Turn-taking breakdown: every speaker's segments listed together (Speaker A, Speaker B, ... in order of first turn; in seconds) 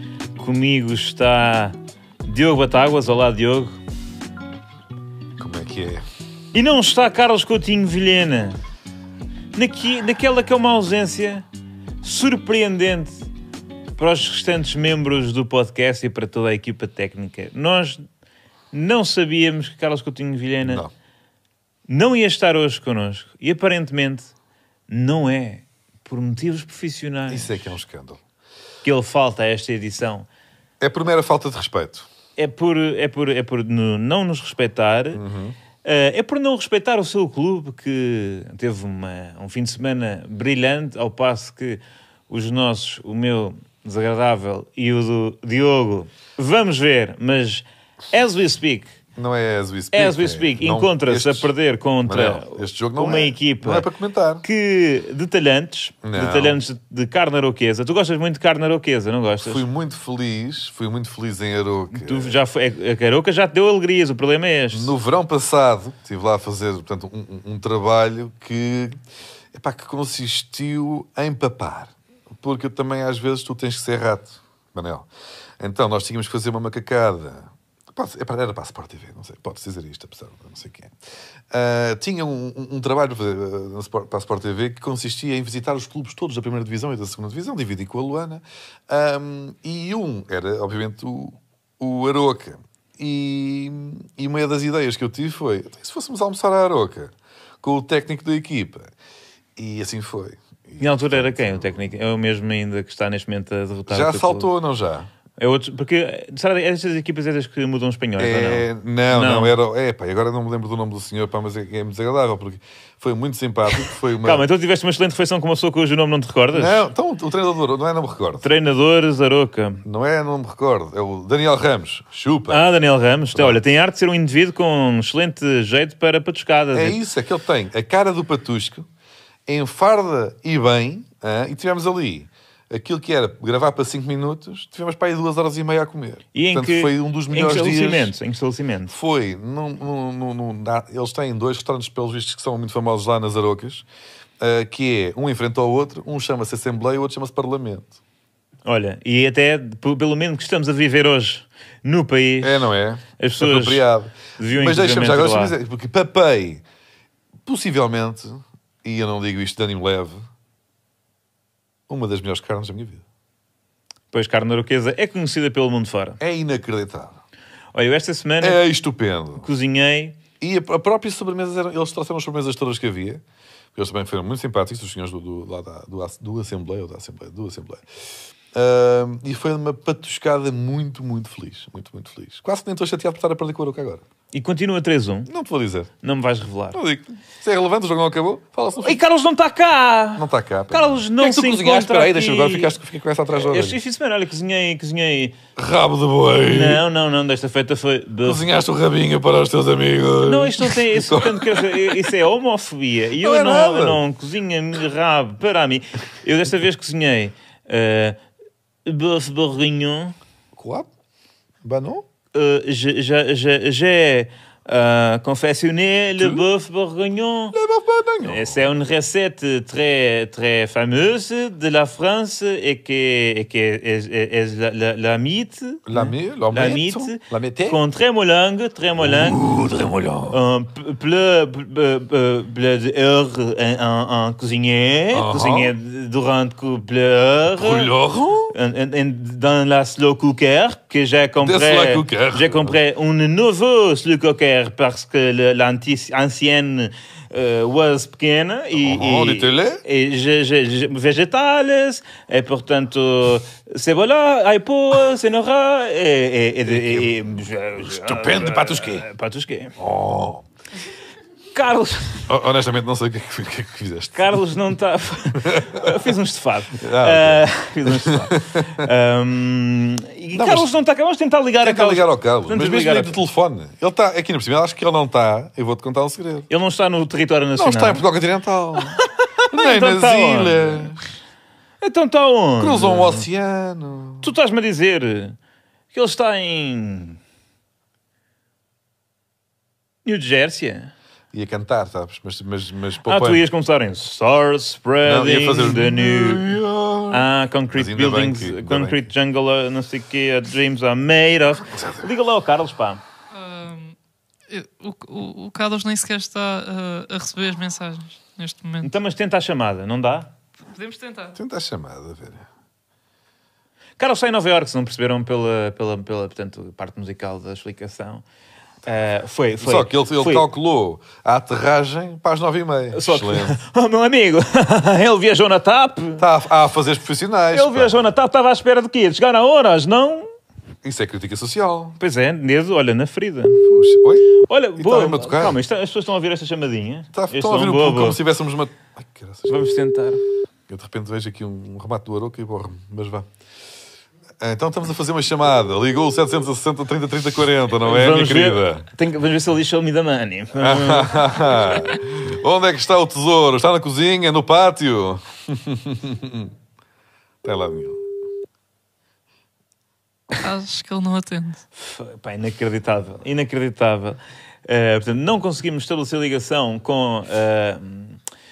Speaker A: 0.3-3.8, 6.5-8.6, 9.5-11.4, 12.0-13.3, 13.9-18.1, 18.7-20.8, 21.9-24.3, 24.9-27.8, 28.8-30.3, 32.4-35.2, 35.8-48.9, 49.9-53.9, 54.4-59.6, 61.9-64.9, 100.8-104.5, 105.4-109.5, 113.8-116.9, 118.4-119.8, 122.5-127.0, 136.3-138.9, 148.6-153.8, 154.4-155.5, 164.1-166.2, 167.7-168.6, 169.3-170.2, 184.3-185.3, 186.0-186.8, 188.8-192.8, 193.3-195.3, 196.4-198.4, 200.2-208.2, 208.8-210.1, 212.3-217.6, 218.2-229.4, 230.3-237.9, 238.5-259.8, 261.5-262.3, 264.1-273.1, 276.5-278.0, 278.9-280.9, 281.8-283.2, 284.2-285.4, 285.9-287.2, 290.0-290.9, 293.0-296.6, 297.1-303.0, 308.8-310.3, 314.0-318.2, 318.9-320.4, 322.9-326.2, 327.5-330.3, 332.0-333.6, 334.4-338.2, 339.5-340.2, 347.8-351.4, 361.8-368.2
Speaker B: 5.4-6.0, 20.6-20.9, 27.3-28.2, 30.8-32.1, 35.1-35.5, 49.1-51.5, 52.0-54.4, 56.0-56.6, 59.4-62.4, 64.7-69.0, 69.5-75.1, 75.6-80.9, 81.5-98.9, 99.6-101.9, 103.9-105.1, 108.2-114.4, 116.5-118.4, 119.8-122.7, 123.3-123.6, 126.7-128.9, 129.5-138.1, 138.9-143.8, 144.4-148.0, 152.4-156.6, 157.4-160.3, 161.9-163.0, 166.2-167.2, 168.4-169.4, 170.4-173.2, 173.7-177.9, 178.5-184.0, 185.2-185.9, 186.7-189.0, 190.2-193.8, 195.6-196.8, 198.2-202.1, 203.2-204.0, 210.5-210.9, 211.6-212.0, 216.2-216.4, 217.5-218.7, 225.9-227.8, 229.0-230.4, 235.1-235.7, 237.6-238.5, 241.4-242.8, 248.7-249.8, 256.7-257.1, 257.8-259.1, 259.8-260.4, 262.3-264.4, 265.4-266.1, 266.8-268.9, 270.3-270.7, 271.6-276.5, 277.5-281.0, 282.6-284.3, 291.3-293.4, 295.0-299.1, 301.7-302.1, 311.3-312.4, 319.6-323.6, 326.2-327.9, 330.8-332.0, 333.6-335.6, 337.1-339.7, 340.7-343.3, 344.4-348.9, 350.6-356.5, 357.4-358.0
Speaker C: 303.3-303.9, 304.5-308.9, 310.7-311.4, 360.4-361.6